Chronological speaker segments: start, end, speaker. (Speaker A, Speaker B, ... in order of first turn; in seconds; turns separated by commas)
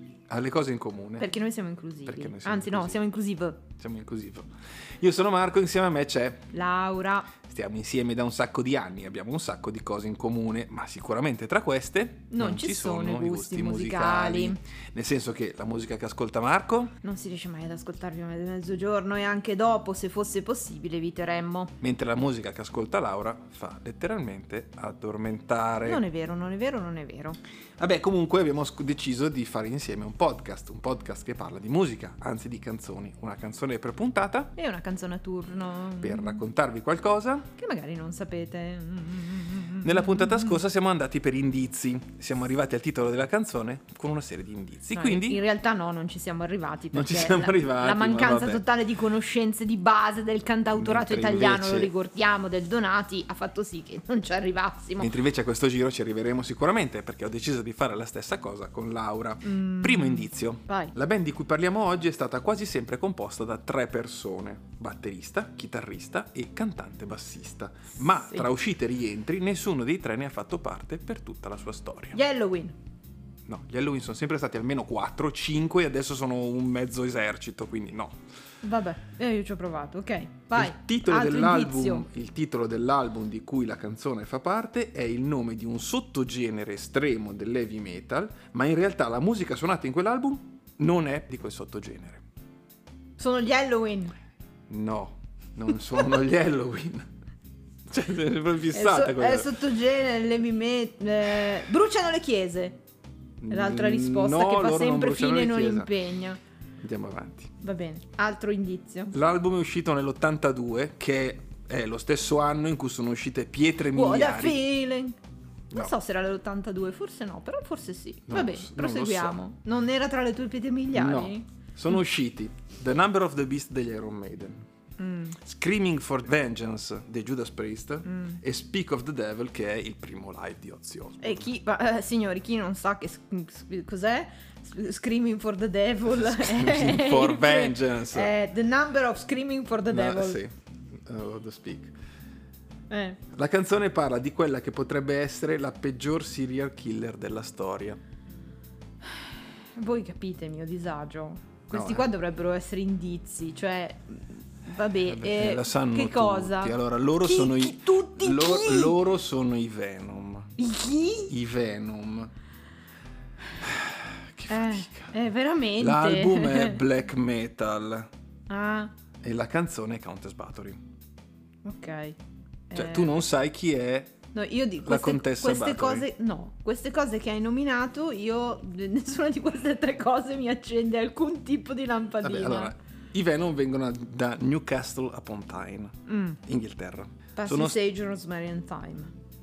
Speaker A: 0.3-1.3, Speaker B: 1.2-3.6, Speaker A: 2.1-3.0, Speaker A: 3.8-6.5, Speaker B: 6.5-7.3, Speaker A: 7.4-17.0, Speaker B: 12.3-14.6, Speaker B: 17.0-21.7, Speaker A: 21.8-26.0, Speaker B: 25.8-27.4, Speaker A: 27.8-34.5, Speaker B: 34.6-36.4, Speaker A: 36.0-37.5, Speaker B: 37.6-40.5, Speaker A: 39.8-45.4, Speaker B: 44.9-55.1, Speaker A: 46.9-48.6, Speaker A: 50.7-51.9, Speaker A: 55.0-72.2, Speaker B: 59.5-60.9, Speaker B: 72.1-72.8, Speaker A: 73.5-78.2, Speaker B: 78.6-82.1, Speaker A: 80.5-92.2, Speaker B: 93.2-94.1, Speaker A: 94.7-97.1, Speaker A: 97.9-99.6, Speaker B: 98.7-102.8, Speaker A: 103.4-105.9, Speaker B: 103.5-106.4, Speaker A: 106.8-107.5, Speaker B: 107.6-109.1, Speaker A: 109.1-114.6, Speaker B: 113.9-115.2, Speaker B: 115.7-121.5, Speaker A: 118.3-119.4, Speaker A: 120.9-124.6, Speaker B: 125.0-125.4, Speaker A: 125.4-131.5, Speaker B: 128.1-128.4, Speaker B: 131.2-140.4, Speaker A: 136.1-138.3, Speaker A: 139.9-141.9, Speaker B: 142.9-143.2, Speaker A: 143.3-148.0, Speaker B: 149.7-159.0, Speaker A: 151.7-152.1, Speaker A: 155.1-160.5, Speaker B: 160.6-161.3, Speaker A: 161.3-162.3, Speaker A: 163.6-165.1, Speaker B: 164.5-166.8, Speaker A: 165.8-168.1, Speaker B: 168.5-168.9, Speaker A: 169.2-170.8, Speaker B: 171.7-172.2, Speaker B: 172.7-173.2, Speaker A: 172.7-174.1, Speaker B: 174.3-182.7, Speaker A: 174.8-176.1, Speaker A: 182.2-187.8, Speaker B: 186.1-186.4, Speaker B: 187.4-189.1